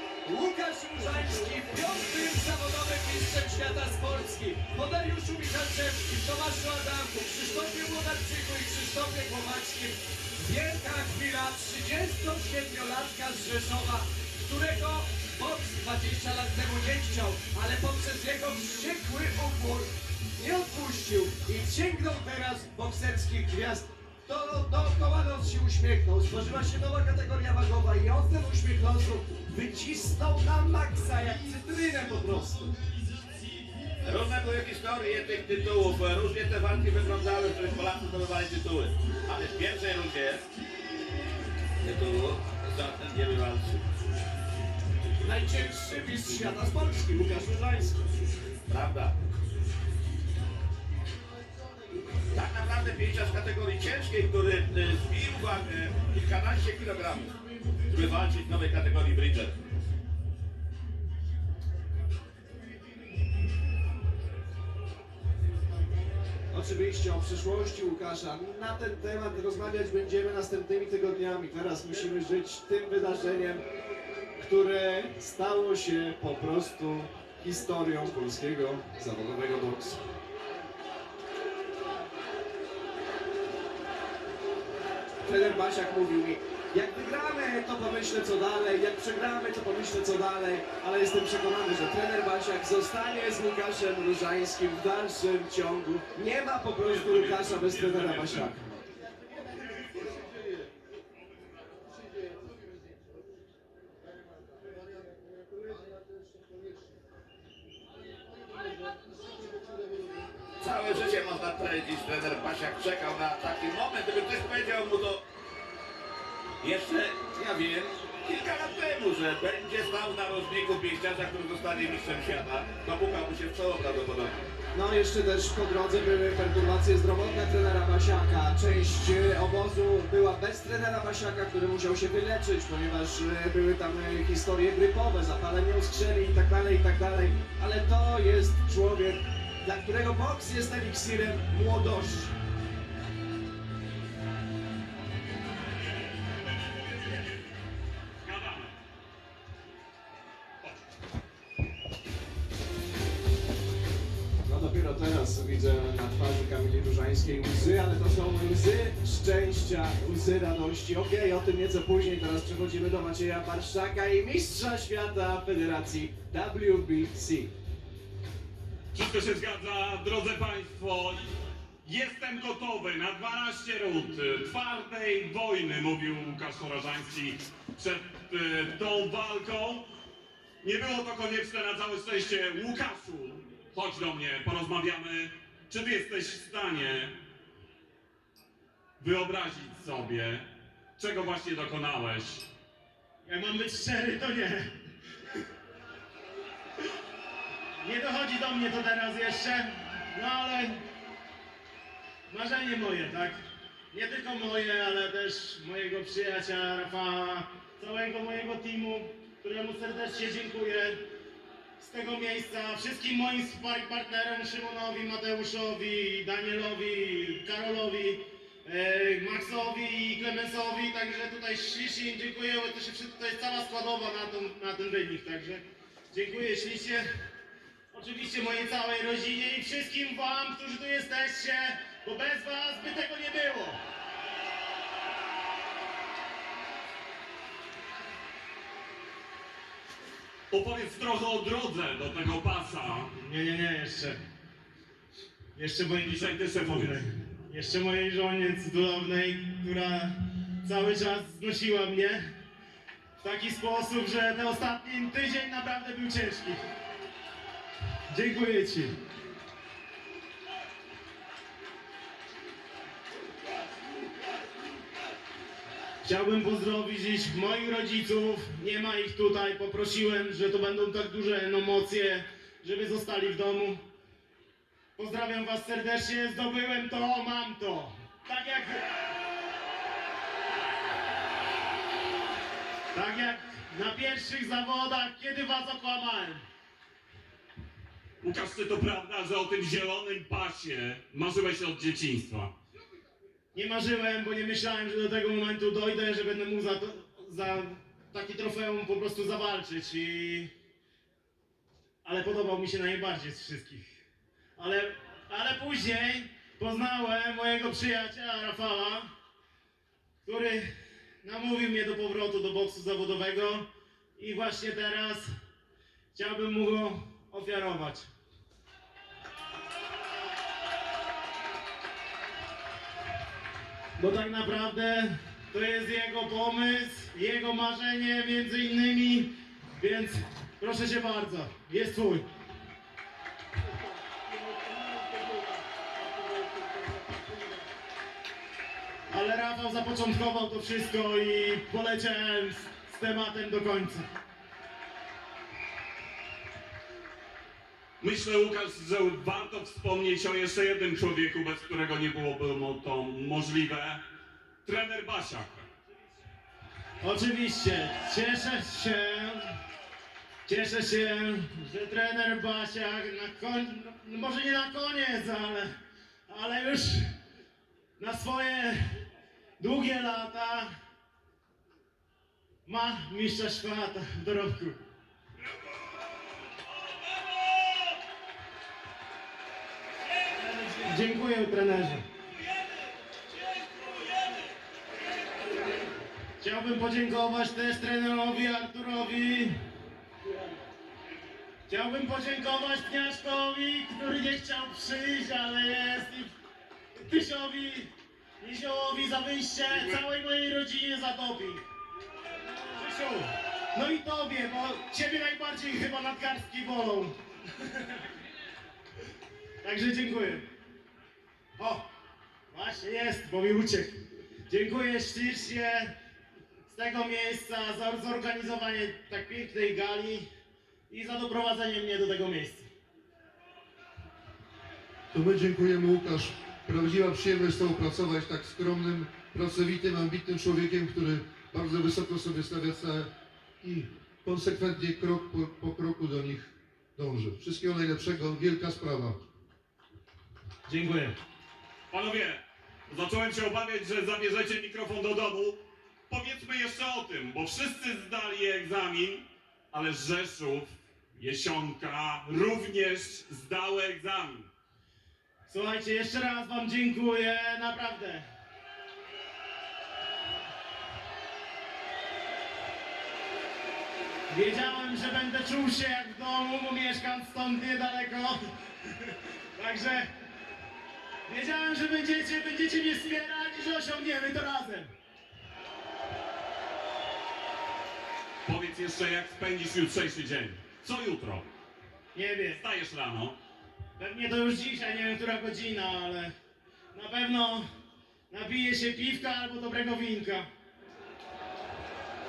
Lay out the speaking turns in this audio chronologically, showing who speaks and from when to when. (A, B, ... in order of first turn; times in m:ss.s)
0:00.2-0:32.7 A
0:32.3-0:33.6 B
0:34.0-0:40.4 C
0:40.8-0:41.3 B
0:41.8-0:43.8 C
0:45.2-0:48.0 A
0:48.7-0:49.1 C
0:52.3-0:57.3 C
0:57.9-0:59.5 C
1:06.5-1:13.6 A
1:14.4-1:20.0 A
1:25.2-1:38.6 A
1:36.9-1:38.5 D
1:50.6-1:55.2 C
1:56.6-2:04.4 C
2:04.7-2:22.3 A
2:28.2-2:28.7 D
2:34.4-2:47.5 A
2:48.9-2:51.2 D
2:51.8-2:59.9 D
3:00.6-3:07.1 D
3:09.0-3:10.4 D
3:11.0-3:12.4 D
3:13.2-3:14.7 E
3:17.8-3:20.7 E
3:22.3-3:23.4 E
3:23.9-3:31.0 E
3:31.8-3:47.0 E
3:47.9-3:53.8 E
4:00.5-4:03.1 D
4:03.2-4:04.2 E
4:05.6-4:12.2 E
4:06.0-4:07.0 D
4:13.2-4:16.6 E
4:18.1-4:18.9 E
4:26.0-4:33.8 E
4:35.0-4:38.9 E
4:42.9-4:46.4 E
4:48.2-4:52.5 D
4:53.5-5:00.5 E
5:02.0-5:03.9 E
5:04.6-5:09.1 E
5:10.2-5:10.6 E
5:11.2-5:15.2 E
5:16.1-5:18.1 E
5:24.0-5:32.2 E
5:39.1-5:44.0 E
5:48.0-5:54.0 D
5:54.6-5:55.7 D
5:57.0-5:59.4 E
6:00.4-6:05.7 E
6:06.3-6:07.1 E
6:08.0-6:08.8 E
6:09.6-6:10.7 E
6:12.6-6:14.8 E
6:20.6-6:22.0 E
6:23.6-6:24.4 D
6:26.4-6:29.5 E
6:31.7-6:36.3 E
6:36.9-6:41.6 E
6:42.7-6:48.0 E
6:49.6-6:50.4 E
6:51.6-6:51.8 E
6:52.5-6:55.9 E
6:56.7-7:00.3 E
7:00.9-7:02.7 E
7:05.1-7:13.1 B
7:13.6-7:19.2 B
7:20.7-7:21.1 E
7:21.9-7:34.5 D
7:35.5-7:38.2 E
7:44.3-7:48.4 E
7:49.0-7:50.1 E
7:51.3-7:54.9 E
7:58.4-8:01.4 D
8:02.1-8:02.6 E
8:02.6-8:03.4 D
8:04.0-8:06.3 E
8:06.9-8:07.6 E
8:08.3-8:10.4 E